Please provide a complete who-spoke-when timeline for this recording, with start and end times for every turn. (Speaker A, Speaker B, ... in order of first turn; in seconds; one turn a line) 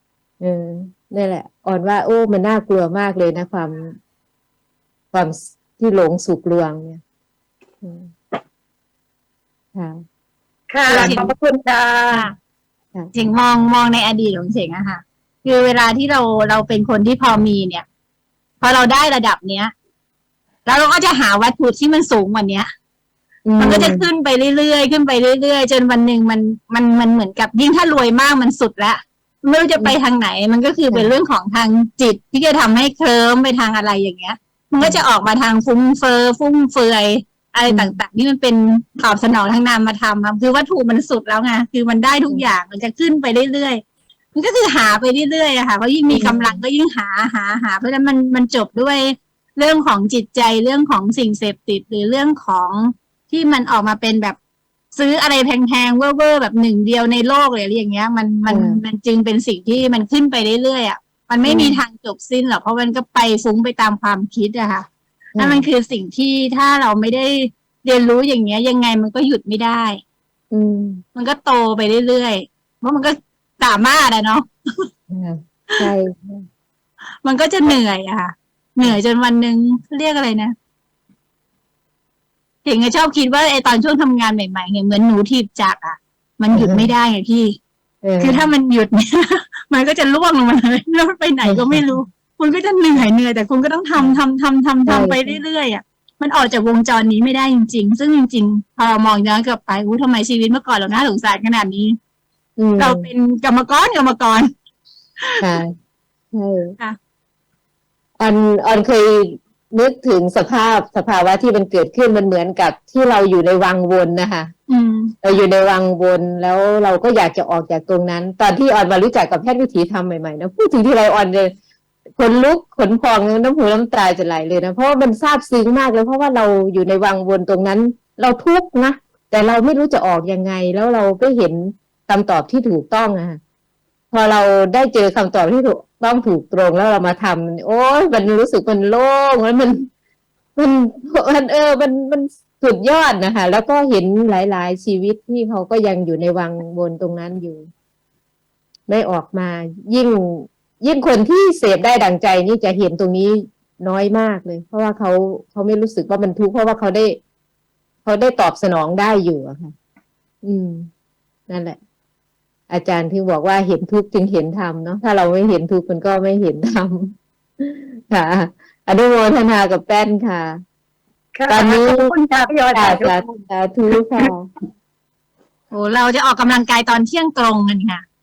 Speaker A: 0.4-4.0
Speaker A: 5.1-7.0
Speaker A: 7.8-8.1
Speaker A: 9.7-10.0
Speaker B: 10.7-12.2
Speaker C: 10.9-11.3
Speaker A: 10.9-11.2
Speaker C: 13.1-17.9
Speaker C: 18.6-19.7
Speaker C: 20.6-22.7
Speaker A: 23.4-24.1
Speaker C: 23.6-43.8
Speaker A: 34.8-35.0
Speaker A: 37.7-38.0
Speaker C: 44.4-54.4
Speaker A: 46.1-46.6
Speaker C: 54.9-64.9
Speaker A: 58.5-58.8
Speaker A: 61.4-61.8
Speaker A: 65.4-65.7
Speaker C: 65.4-70.0
Speaker A: 70.5-71.0
Speaker C: 71.1-74.9
Speaker A: 75.1-76.5
Speaker C: 77.2-80.5
Speaker C: 82.6-87.6
Speaker A: 86.5-86.9
Speaker A: 88.0-88.5
Speaker C: 88.2-102.0
Speaker A: 91.5-91.9
Speaker A: 94.0-94.2
Speaker A: 94.9-95.3
Speaker A: 102.6-103.1
Speaker C: 102.8-104.5
Speaker C: 105.2-105.6
Speaker A: 105.4-105.7
Speaker A: 106.3-106.8
Speaker A: 108.2-114.5
Speaker C: 114.7-115.3
Speaker A: 115.2-121.5
Speaker A: 122.2-133.4
Speaker A: 134.1-139.9
Speaker A: 140.6-147.7
Speaker A: 148.9-157.2
Speaker A: 158.0-159.7
Speaker A: 160.4-160.9
Speaker A: 161.5-161.8
Speaker A: 162.7-170.6
Speaker B: 171.3-173.3
Speaker A: 171.5-172.1
Speaker A: 172.7-174.5
Speaker C: 175.7-178.0